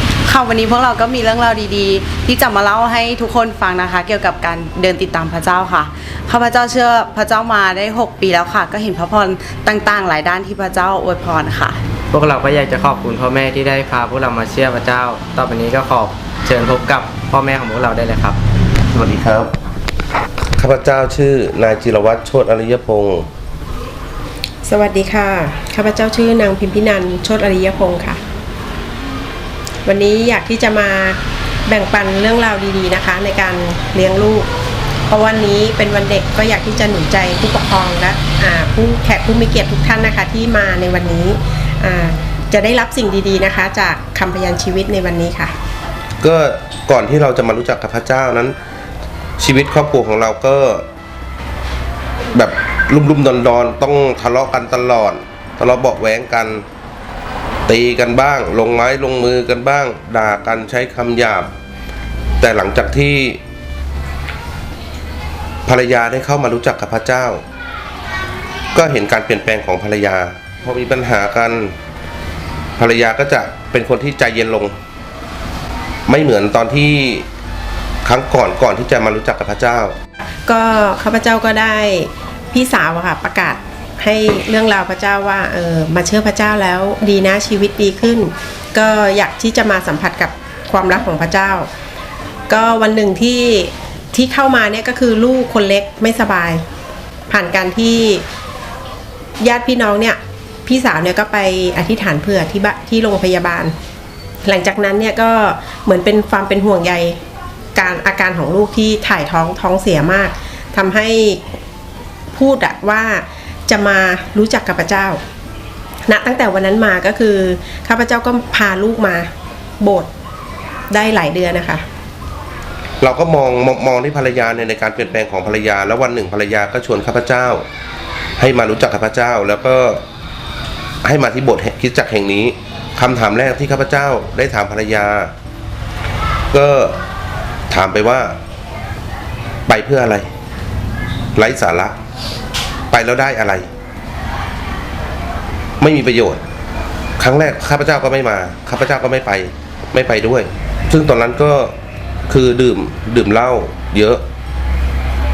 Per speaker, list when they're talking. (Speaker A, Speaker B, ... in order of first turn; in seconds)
Speaker A: 0.2-11.8
Speaker B: 12.1-18.4
Speaker C: 18.9-19.6, 20.6-23.3, 46.2-48.6, 49.4-50.9, 52.3-56.7, 57.7-61.5, 62.4-63.4, 65.7-67.4, 68.7-71.8, 72.8-74.8, 76.1-77.3, 78.0-80.0, 123.0-127.7, 128.4-130.0, 131.0-135.3, 136.5-137.0, 137.7-138.4, 139.7-140.3, 141.4-142.0, 142.9-143.7, 145.8-146.4, 147.2-151.8, 152.3-154.2
Speaker D: 24.7-28.2, 29.9-34.5, 35.1-45.5, 80.5-91.7, 92.5-96.6, 97.3-98.2, 99.4-103.8, 104.5-107.2, 107.8-111.4, 112.3-115.2, 116.1-120.1, 120.9-121.8